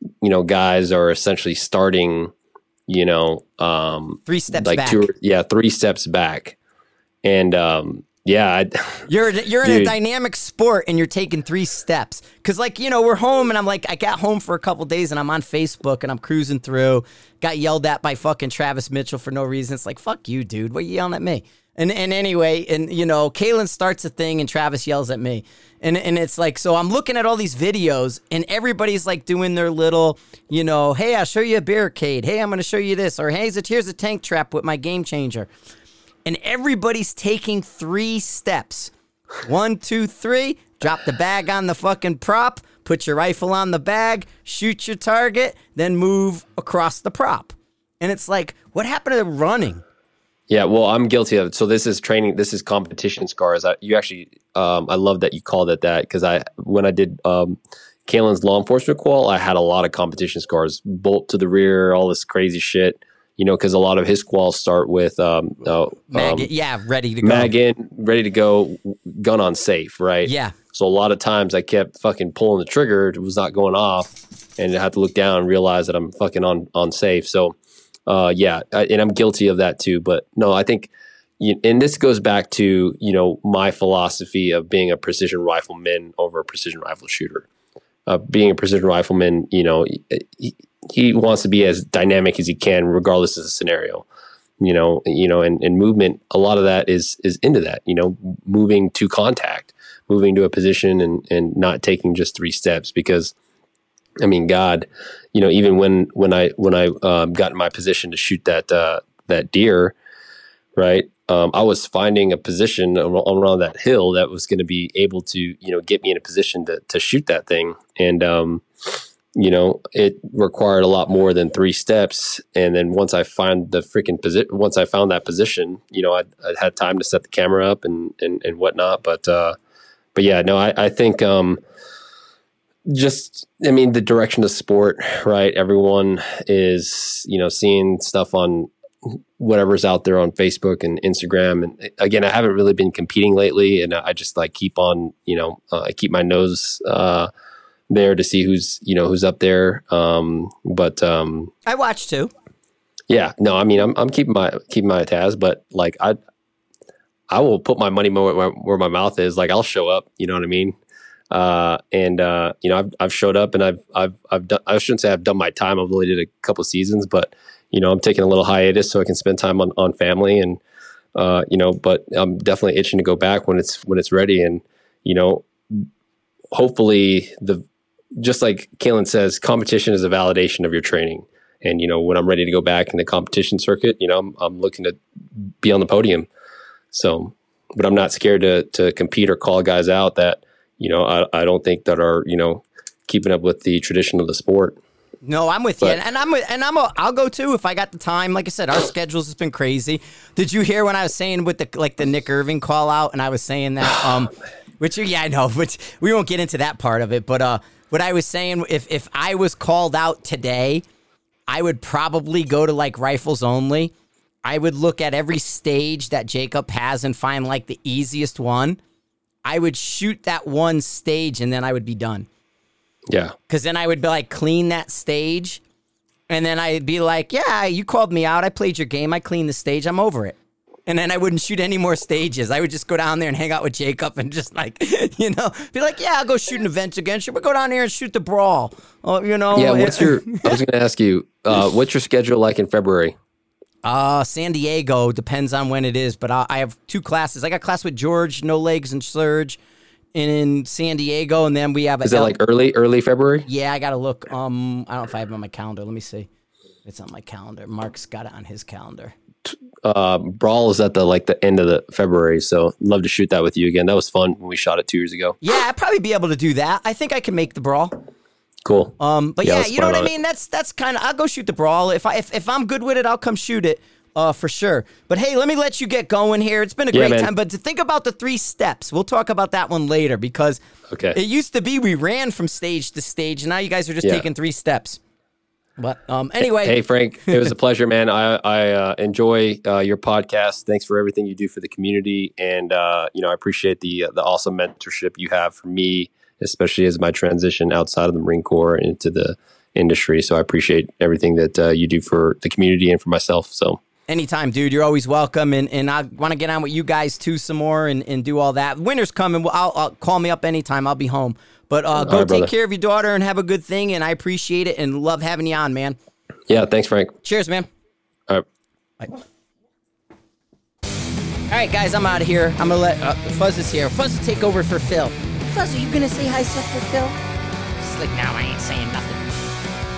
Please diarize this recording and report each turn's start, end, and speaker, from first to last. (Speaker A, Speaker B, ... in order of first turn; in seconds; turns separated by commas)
Speaker A: 0.2-2.3, Speaker A: 2.9-6.6, Speaker B: 4.2-5.1, Speaker A: 7.2-9.1, Speaker B: 9.1-35.5, Speaker A: 9.6-9.9, Speaker B: 36.2-49.8, Speaker A: 50.5-66.5, Speaker B: 66.1-67.5, Speaker A: 67.2-87.5, Speaker B: 70.2-70.5, Speaker A: 88.1-94.0, Speaker A: 94.6-103.3, Speaker A: 104.2-110.0, Speaker A: 110.7-118.6, Speaker A: 119.3-129.5, Speaker A: 130.1-131.6, Speaker A: 132.9-147.3, Speaker A: 147.9-151.5, Speaker B: 151.7-152.3, Speaker A: 153.1-156.2, Speaker A: 157.3-160.8, Speaker A: 161.3-170.6, Speaker A: 171.1-175.9, Speaker A: 176.5-177.6, Speaker A: 178.2-185.0, Speaker A: 185.6-186.3, Speaker A: 186.9-194.8, Speaker B: 195.2-210.8, Speaker B: 211.5-213.9, Speaker B: 214.4-218.8, Speaker B: 219.4-222.3, Speaker A: 223.1-223.3, Speaker B: 223.5-225.6, Speaker B: 226.3-240.6, Speaker A: 239.5-243.2, Speaker B: 243.8-249.6, Speaker B: 250.1-252.3, Speaker A: 252.0-253.5, Speaker B: 253.5-256.3, Speaker B: 256.8-259.1, Speaker A: 259.5-265.4, Speaker B: 265.4-267.9, Speaker A: 268.6-270.1, Speaker B: 269.0-280.6, Speaker A: 276.9-277.3, Speaker A: 280.9-281.2, Speaker B: 281.1-285.0, Speaker B: 285.8-287.5, Speaker A: 286.4-303.8, Speaker B: 304.1-316.0, Speaker A: 312.0-312.5, Speaker A: 316.5-317.1, Speaker B: 317.2-317.7, Speaker B: 321.5-327.2, Speaker B: 327.8-329.3